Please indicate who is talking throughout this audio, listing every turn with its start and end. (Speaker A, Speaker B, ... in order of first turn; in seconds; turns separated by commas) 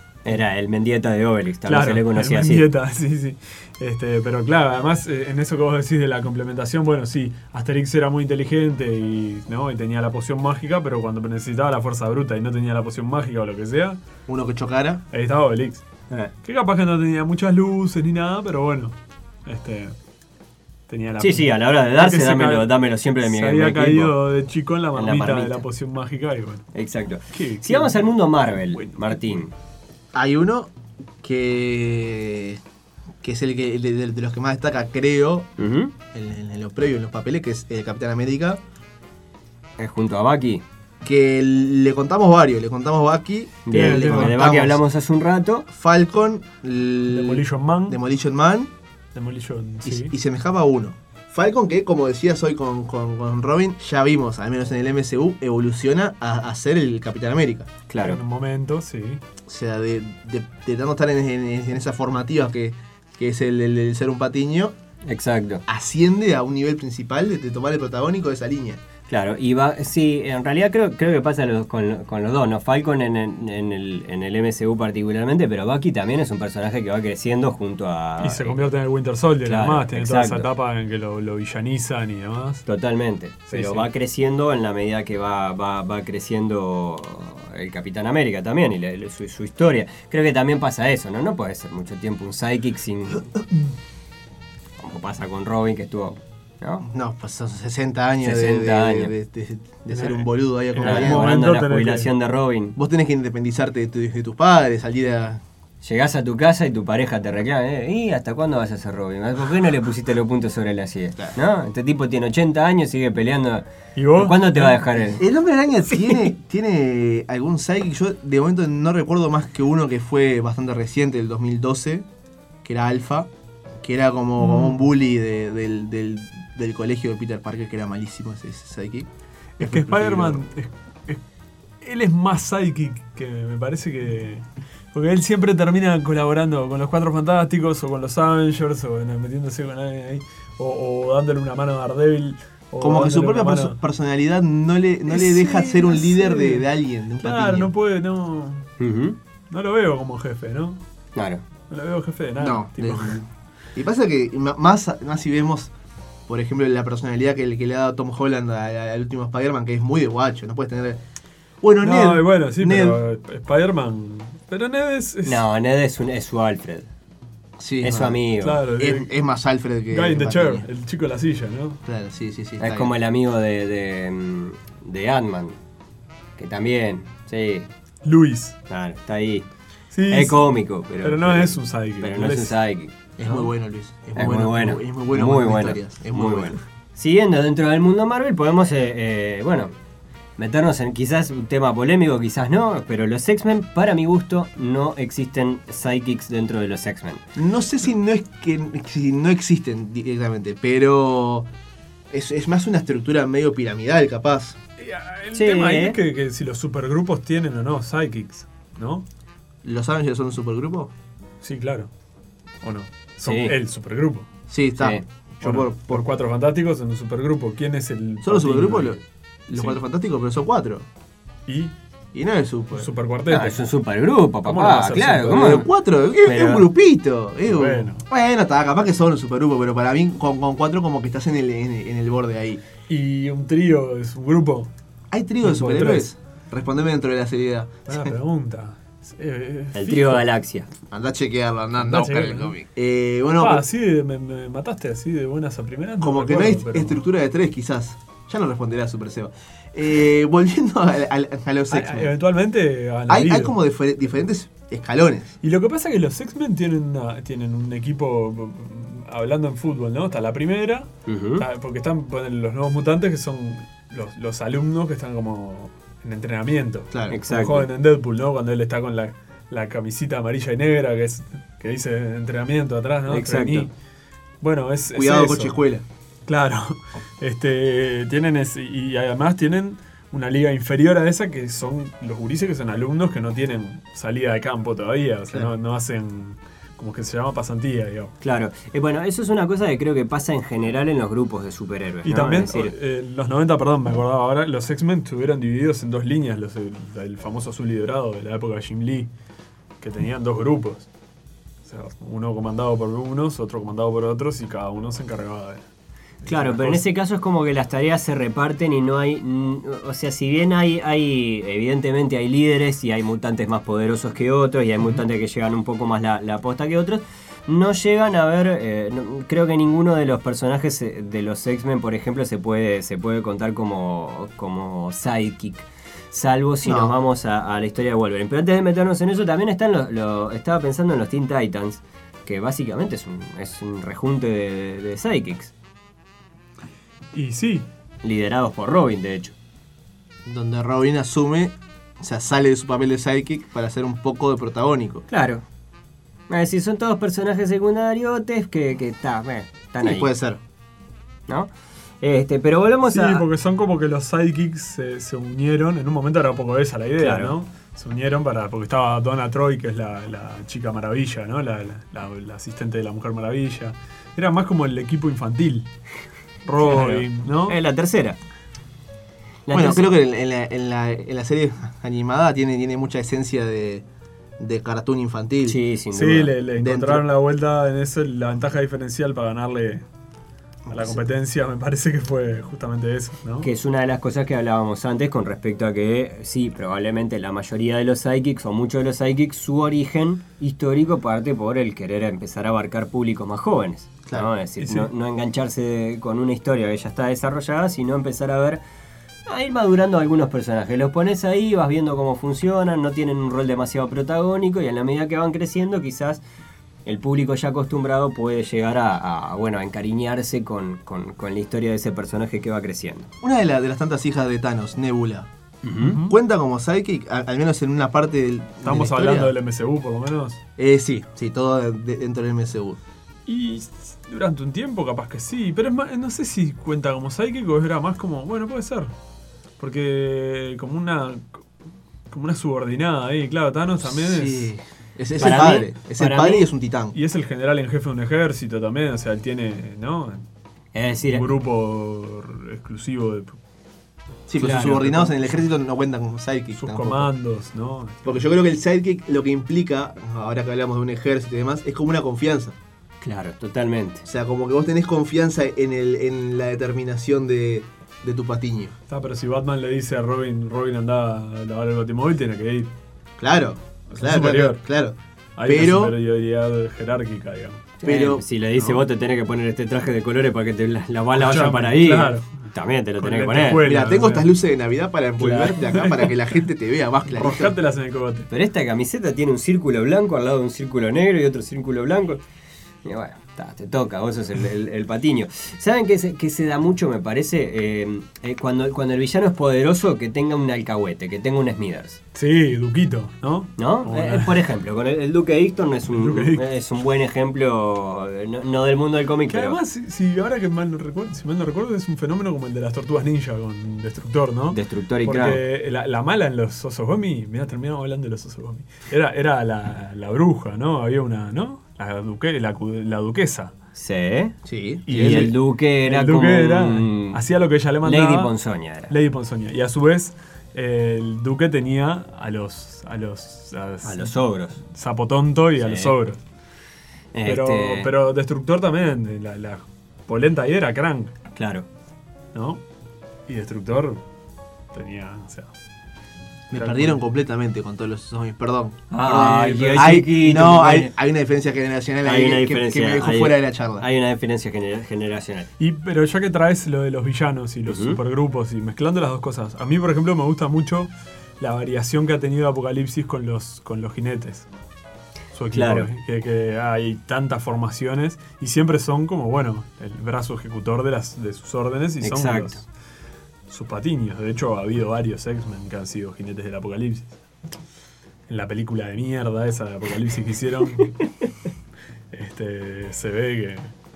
Speaker A: 0.2-2.6, Speaker B: 1.7-14.0, Speaker C: 14.3-15.0, Speaker B: 15.1-15.8, Speaker B: 16.4-18.9, Speaker B: 19.5-19.9, Speaker B: 20.9-26.7, Speaker A: 21.2-24.1, Speaker A: 24.9-25.6, Speaker A: 26.8-29.5, Speaker B: 27.3-29.4, Speaker C: 30.1-32.6, Speaker C: 33.2-35.5, Speaker A: 35.6-35.9, Speaker C: 36.1-38.6, Speaker A: 39.8-40.6, Speaker C: 41.0-44.8, Speaker A: 43.7-45.7, Speaker B: 43.7-44.4, Speaker C: 45.7-48.7, Speaker B: 47.1-48.0, Speaker B: 49.1-50.1, Speaker C: 49.8-57.7, Speaker A: 57.9-58.2, Speaker B: 58.0-59.2, Speaker C: 59.5-64.8, Speaker A: 65.0-65.6, Speaker C: 65.7-68.8, Speaker A: 69.1-78.7, Speaker B: 78.2-82.7, Speaker A: 79.4-80.5, Speaker A: 82.7-93.3, Speaker B: 83.5-83.9, Speaker A: 94.8-96.9, Speaker C: 96.8-101.4, Speaker A: 98.2-99.1, Speaker B: 99.9-102.1, Speaker A: 100.8-102.8, Speaker C: 102.8-105.4, Speaker A: 105.8-115.2, Speaker B: 114.0-114.8, Speaker C: 115.2-122.0, Speaker A: 115.9-116.2, Speaker C: 122.6-123.3, Speaker C: 123.8-129.1, Speaker B: 124.4-124.9, Speaker B: 129.6-131.2, Speaker C: 129.6-130.4, Speaker B: 131.8-143.8, Speaker C: 142.8-147.7, Speaker B: 145.1-146.7, Speaker B: 147.2-148.7, Speaker A: 148.8-149.2, Speaker B: 149.5-150.8, Speaker A: 151.2-151.4, Speaker B: 151.7-153.3, Speaker C: 152.4-153.2, Speaker C: 153.8-155.7, Speaker C: 156.3-161.0, Speaker C: 161.6-163.0, Speaker B: 161.8-165.4, Speaker A: 165.2-166.9, Speaker C: 167.6-170.7, Speaker A: 167.8-168.6, Speaker B: 168.4-169.2, Speaker B: 169.9-171.8, Speaker C: 171.8-172.9, Speaker A: 172.6-175.6, Speaker A: 176.4-177.7, Speaker B: 178.0-178.6, Speaker A: 178.7-179.5, Speaker B: 179.9-180.5, Speaker A: 180.1-183.5, Speaker B: 181.0-182.6, Speaker C: 183.2-186.6, Speaker A: 184.2-189.7, Speaker A: 190.4-197.2, Speaker C: 197.4-201.5, Speaker C: 202.1-204.6, Speaker B: 204.8-209.1, Speaker A: 205.3-206.0, Speaker C: 209.6-210.9, Speaker B: 211.4-211.9, Speaker B: 212.6-214.3, Speaker A: 213.2-213.5, Speaker C: 214.5-216.1, Speaker A: 214.8-215.0, Speaker B: 215.4-219.0, Speaker C: 218.2-220.9, Speaker B: 219.5-219.8, Speaker B: 221.5-221.7, Speaker C: 222.1-222.9, Speaker B: 222.7-223.7, Speaker A: 223.3-225.7, Speaker B: 224.4-225.7, Speaker C: 225.3-232.6, Speaker A: 226.2-226.7, Speaker B: 227.5-228.0, Speaker B: 232.9-234.7, Speaker C: 235.1-238.1, Speaker B: 235.4-236.1, Speaker B: 237.9-240.2, Speaker A: 239.7-240.7, Speaker C: 240.9-243.6, Speaker B: 241.8-242.6, Speaker B: 243.4-247.0, Speaker C: 246.0-252.1, Speaker B: 251.7-253.6, Speaker C: 253.1-255.4, Speaker B: 255.4-273.7, Speaker A: 261.1-261.4, Speaker C: 266.9-267.2, Speaker A: 267.1-267.7, Speaker A: 273.1-273.7, Speaker B: 274.4-275.6, Speaker C: 274.9-275.9, Speaker B: 276.3-288.1, Speaker A: 288.2-292.7, Speaker B: 292.0-299.1, Speaker B: 299.8-300.9, Speaker B: 301.6-305.6, Speaker B: 306.2-306.9, Speaker A: 306.3-335.5, Speaker C: 326.6-326.9, Speaker B: 337.1-337.7, Speaker A: 338.0-339.3, Speaker C: 340.2-345.1, Speaker A: 345.1-345.4, Speaker A: 346.3-350.1, Speaker C: 349.8-350.4, Speaker A: 351.3-353.2, Speaker B: 352.8-365.7, Speaker A: 357.0-357.4, Speaker B: 366.4-367.6, Speaker A: 366.6-368.2, Speaker A: 369.5-369.9, Speaker C: 369.5-373.9, Speaker C: 374.4-375.6, Speaker A: 375.5-376.4, Speaker B: 375.9-379.9, Speaker C: 376.6-377.1, Speaker C: 380.7-381.0, Speaker B: 380.7-383.5, Speaker A: 383.4-398.6, Speaker A: 399.3-406.2, Speaker A: 406.9-413.1, Speaker C: 413.2-415.3, Speaker A: 415.6-416.0, Speaker B: 415.8-416.1, Speaker C: 415.9-419.3, Speaker B: 418.6-420.4, Speaker C: 420.6-422.8, Speaker B: 423.3-428.9, Speaker B: 429.6-431.4, Speaker B: 432.1-434.5, Speaker C: 433.8-437.0, Speaker A: 435.2-436.5, Speaker B: 436.9-440.2, Speaker A: 440.7-441.3, Speaker B: 441.1-443.4, Speaker C: 444.3-447.1, Speaker A: 444.4-444.9, Speaker B: 444.4-445.2, Speaker B: 446.5-448.2, Speaker C: 448.1-452.6, Speaker A: 453.0-454.0, Speaker C: 454.0-458.8, Speaker B: 458.9-462.7, Speaker C: 463.2-465.9, Speaker B: 463.9-464.6, Speaker B: 465.4-467.7, Speaker A: 467.8-473.6, Speaker C: 467.8-468.2, Speaker B: 468.6-468.8, Speaker B: 471.1-474.3, Speaker C: 473.6-477.6, Speaker B: 475.2-476.3, Speaker B: 477.1-478.3, Speaker A: 478.3-482.2, Speaker A: 482.8-492.0, Speaker B: 492.1-494.4, Speaker A: 493.6-499.6, Speaker B: 495.9-496.4, Speaker B: 499.3-513.5, Speaker A: 504.5-505.4, Speaker A: 513.8-517.2, Speaker C: 514.5-515.3, Speaker B: 514.9-518.3, Speaker A: 517.8-518.9, Speaker B: 518.9-526.2, Speaker A: 523.8-524.6, Speaker A: 525.6-525.9, Speaker A: 527.1-527.9, Speaker B: 527.2-531.1, Speaker A: 531.4-531.7, Speaker B: 532.3-532.6, Speaker B: 533.3-534.0, Speaker B: 534.7-535.5, Speaker C: 536.5-543.9, Speaker B: 536.5-537.0, Speaker A: 538.9-540.9, Speaker B: 539.1-540.0, Speaker A: 542.0-545.5, Speaker B: 545.6-554.5, Speaker A: 547.7-548.0, Speaker B: 555.3-562.7, Speaker A: 555.5-555.9, Speaker A: 562.0-562.6, Speaker B: 563.5-567.2, Speaker B: 568.3-571.0, Speaker B: 572.1-573.7